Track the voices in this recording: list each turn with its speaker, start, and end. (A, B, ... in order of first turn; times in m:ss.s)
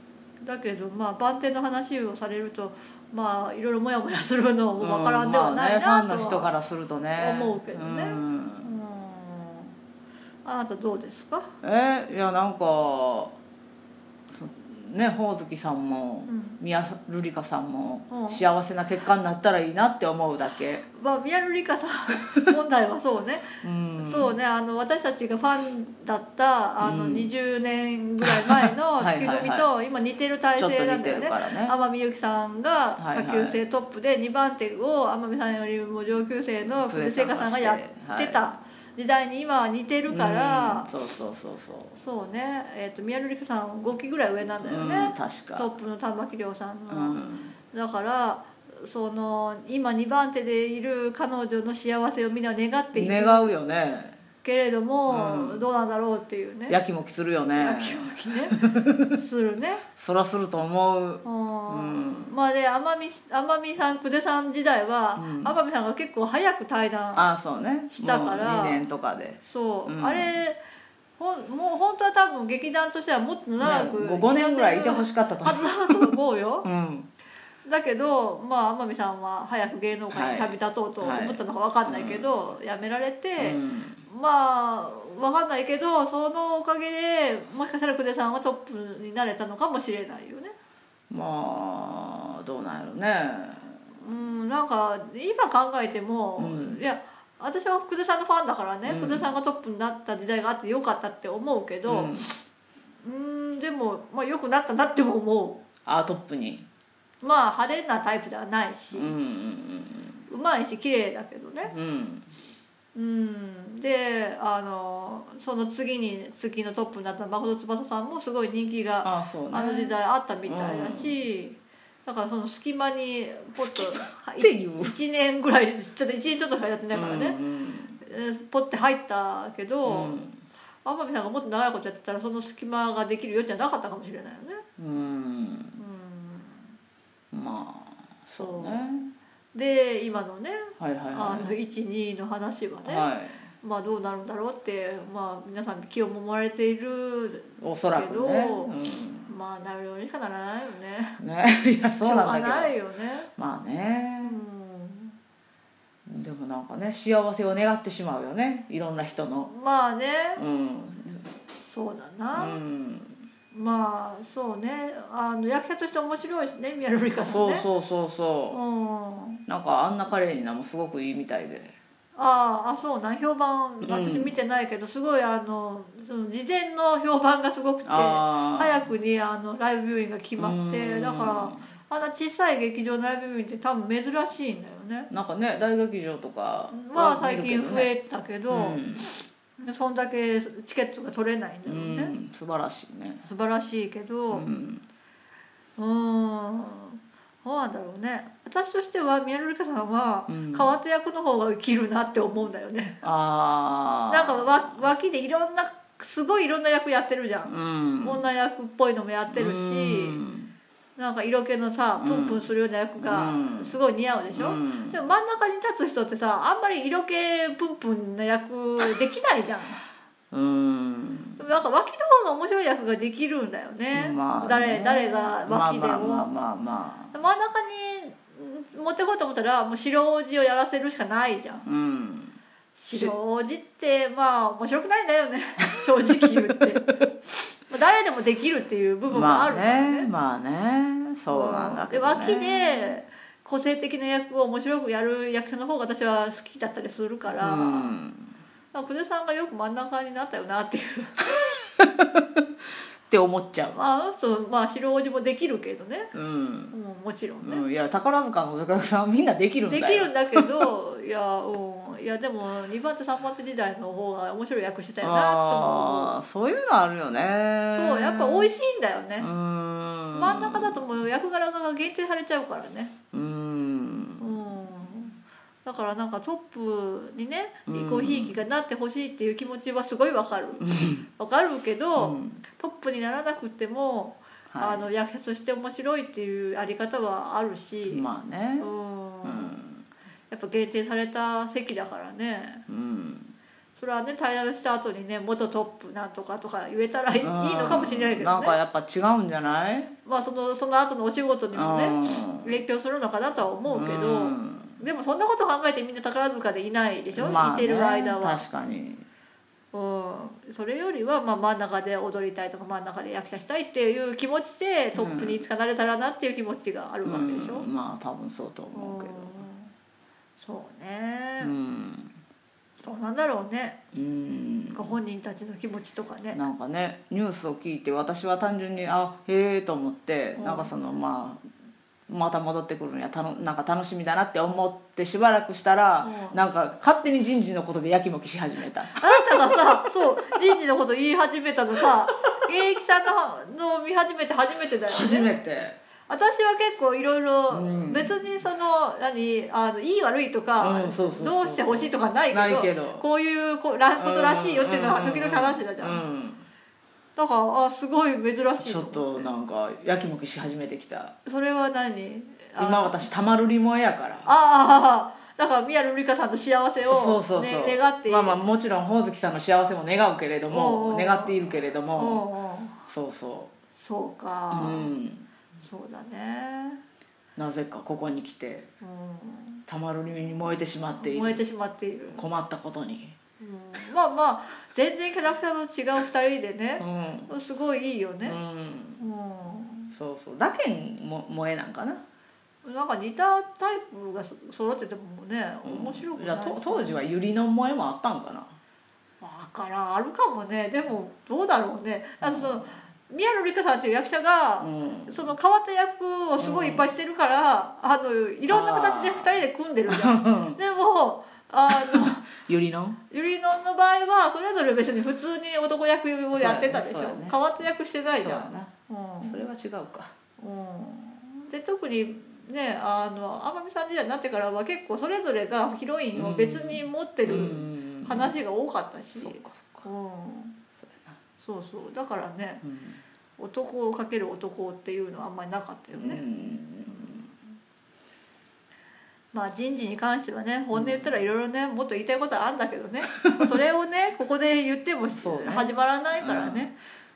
0:00.4-0:06.5 A
0:04.8-0:08.7 B
0:07.2-0:09.7 A
0:10.4-0:11.5 A
0:11.6-0:13.3 B
0:14.3-0:20.8 B
0:16.3-0:16.6 A
0:18.1-0:18.4 A
0:20.9-0:40.9 A
0:23.6-0:24.4 B
0:26.8-0:27.3 B
0:28.2-0:29.7 B
0:30.6-0:31.8 B
0:33.0-0:33.6 B
0:36.7-0:38.4 B
0:40.1-0:42.0 B
0:41.9-0:47.2 A
0:44.6-0:45.7 B
0:46.9-0:47.5 B
0:47.7-0:53.5 A
0:52.9-0:54.2 B
0:54.4-0:56.8 A
0:55.1-0:55.6 B
0:56.7-0:59.2 B
0:57.6-0:58.6 A
0:59.1-0:59.8 A
1:00.0-1:02.3 B
1:01.2-1:07.3 A
1:05.2-1:05.6 B
1:07.1-1:10.3 B
1:07.9-1:08.8 A
1:09.4-1:10.6 A
1:11.2-1:16.7 A
1:13.6-1:17.1 B
1:17.6-1:30.5 A
1:20.1-1:22.4 B
1:23.4-1:24.0 B
1:31.1-1:33.7 B
1:34.0-1:42.4 A
1:36.4-1:36.8 B
1:38.8-1:39.3 B
1:41.8-1:42.3 B
1:43.0-1:45.6 A
1:45.8-1:46.6 B
1:47.2-1:49.1 A
1:48.9-1:50.2 B
1:50.3-1:51.7 A
1:51.7-1:52.2 B
1:52.9-2:07.4 A
1:59.0-2:01.2 B
2:03.6-2:05.0 B
2:06.9-2:08.0 B
2:08.0-2:10.2 A
2:09.8-2:10.4 B
2:10.8-2:14.6 A
2:14.8-2:15.8 B
2:15.8-2:16.7 A
2:17.3-2:19.1 B
2:18.4-2:18.8 A
2:19.5-2:23.1 A
2:20.8-2:21.5 B
2:22.8-2:23.4 B
2:23.6-2:28.7 A
2:27.6-2:29.3 B
2:29.3-2:31.2 A
2:31.2-2:32.7 B
2:32.0-2:33.3 A
2:33.4-2:34.4 B
2:34.2-2:35.2 A
2:36.0-2:39.5 B
2:39.4-2:40.4 A
2:40.4-2:41.3 B
2:41.6-2:42.6 A
2:42.3-2:43.2 B
2:43.5-2:47.7 A
2:47.2-2:48.6 B
2:48.5-2:49.4 A
2:49.5-2:51.7 B
2:52.2-3:05.1 A
2:53.8-2:54.3 B
2:57.8-2:58.9 B
3:00.4-3:01.6 B
3:05.1-3:07.9 B
3:06.7-3:12.1 A
3:08.5-3:09.0 B
3:11.6-3:13.2 B
3:13.2-3:14.5 A
3:14.3-3:14.8 B
3:15.8-3:23.0 A
3:20.3-3:20.7 B
3:23.0-3:24.9 B
3:24.1-3:30.2 A
3:27.4-3:28.2 B
3:29.3-3:30.5 B
3:31.0-3:39.8 A
3:32.0-3:33.8 B
3:34.3-3:35.0 B
3:40.3-3:41.4 B
3:41.4-3:46.3 A
3:43.9-3:47.1 B
3:47.1-3:51.7 A
3:51.6-3:52.4 B
3:52.8-3:56.9 A
3:56.0-3:56.3 B
3:57.7-4:00.1 A
3:59.1-4:03.0 B
4:01.3-4:08.0 A
4:07.4-4:08.3 B
4:08.7-4:11.2 A
4:11.8-4:12.2 B
4:13.1-4:13.8 B
4:13.7-4:16.1 A
4:16.1-4:16.7 B
4:16.7-4:17.6 A
4:17.4-4:20.6 B
4:19.7-4:26.1 A
4:25.0-4:28.5 B
4:27.7-4:29.3 A
4:29.2-4:30.9 B
4:30.1-4:33.0 A
4:33.1-4:34.7 B
4:34.2-4:48.1 A
4:37.7-4:38.4 B
4:40.6-4:41.0 B
4:42.0-4:42.4 B
4:44.5-4:44.8 B
4:47.9-4:48.7 B
4:48.6-4:49.6 A
4:49.2-4:49.8 B
4:50.3-4:52.6 A
4:52.7-4:53.3 B
4:53.8-4:58.6 A
4:57.2-4:59.9 B
5:00.0-5:08.4 A
5:01.5-5:02.6 B
5:03.7-5:04.8 B
5:07.1-5:09.0 B
5:09.7-5:17.7 A
5:15.0-5:15.4 B
5:17.0-5:19.4 B
5:18.7-5:19.7 A
5:20.4-5:21.5 A
5:21.4-5:22.1 B
5:22.8-5:23.8 A
5:23.9-5:24.9 B
5:24.7-5:26.4 A
5:26.3-5:31.4 B
5:30.4-5:30.7 A
5:32.1-5:39.6 B
5:36.0-5:36.4 A
5:39.0-5:45.3 A
5:44.9-5:45.8 B
5:46.1-5:56.0 A
5:47.5-5:48.1 B
5:50.6-5:53.0 B
5:54.0-5:56.4 B
5:57.2-5:59.3 A
5:58.6-6:01.1 B
6:01.2-6:03.0 A
6:02.6-6:04.3 B
6:04.2-6:08.4 A
6:06.9-6:12.2 B
6:10.5-6:12.8 A
6:12.9-6:13.5 B
6:13.8-6:14.9 A
6:14.5-6:15.2 B
6:15.6-6:16.8 A
6:17.4-6:18.7 B
6:18.8-6:19.6 A
6:19.7-6:21.4 B
6:21.0-6:22.2 A
6:22.1-6:23.1 B
6:23.4-6:28.4 A
6:26.8-6:27.3 B
6:28.2-6:29.0 B
6:29.0-6:29.9 A
6:29.9-6:32.0 B
6:32.6-6:37.0 A
6:35.6-6:38.5 B
6:39.2-6:52.3 A
6:42.2-6:42.7 B
6:44.6-6:45.3 B
6:46.4-6:46.8 B
6:48.5-6:50.6 B
6:51.7-6:53.0 B
6:53.1-6:59.4 A
6:56.3-6:57.4 B
6:58.2-6:58.7 B
6:59.2-7:00.1 B
7:00.4-7:10.6 A
7:06.1-7:08.4 B
7:09.2-7:09.9 B
7:10.8-7:11.2 B
7:11.4-7:12.6 A
7:12.6-7:13.0 B
7:13.4-7:16.2 A
7:15.9-7:17.2 B
7:16.9-7:17.2 A
7:19.3-7:26.7 A
7:20.7-7:21.2 B
7:23.2-7:23.5 B
7:25.2-7:26.7 B